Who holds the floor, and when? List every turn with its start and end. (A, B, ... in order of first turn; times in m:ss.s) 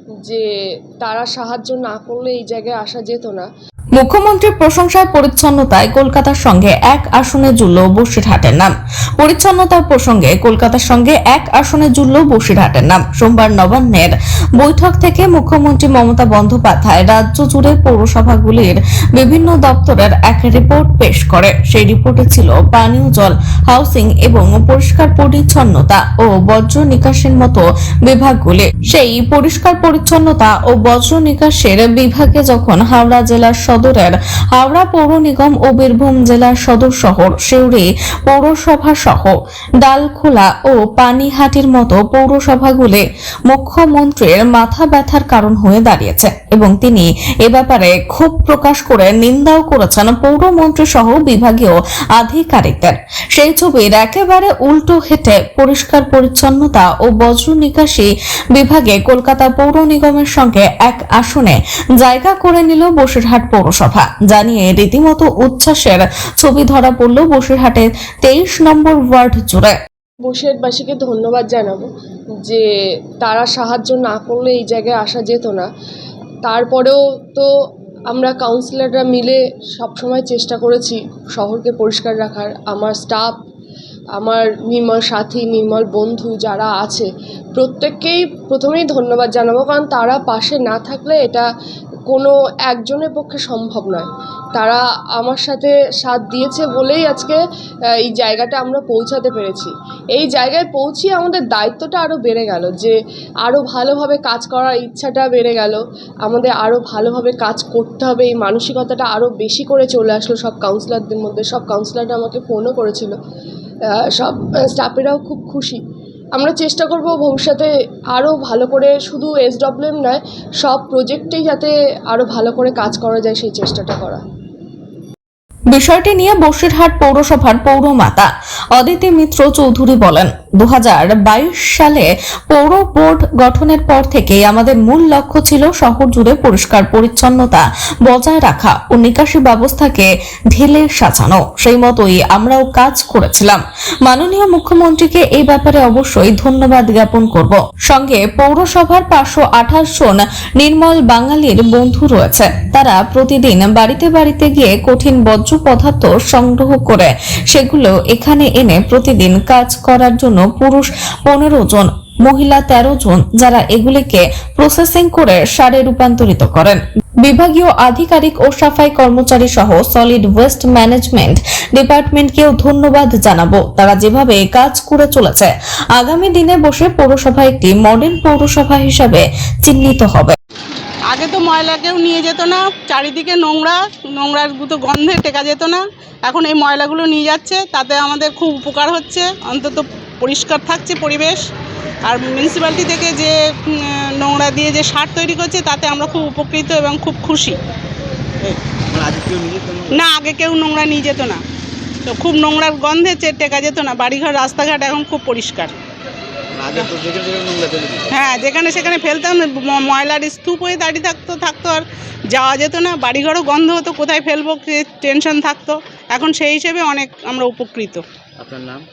0:01.0-0:03.5 A
0:04.0-1:09.7 B
1:10.2-1:11.9 A
1:13.2-1:15.7 A
1:16.4-1:17.5 A
1:18.1-1:23.3 A
1:24.2-1:31.4 A
1:32.1-1:37.4 A
1:38.0-1:53.2 A
1:54.1-1:55.8 A
1:56.3-2:04.2 A
2:05.7-3:00.3 B
3:01.1-3:11.4 C
3:12.0-3:17.6 C
3:18.4-3:20.0 D
3:19.9-3:21.4 C
3:22.0-3:25.8 C
3:26.5-3:28.1 D
3:28.1-3:38.0 C
3:38.4-3:38.8 D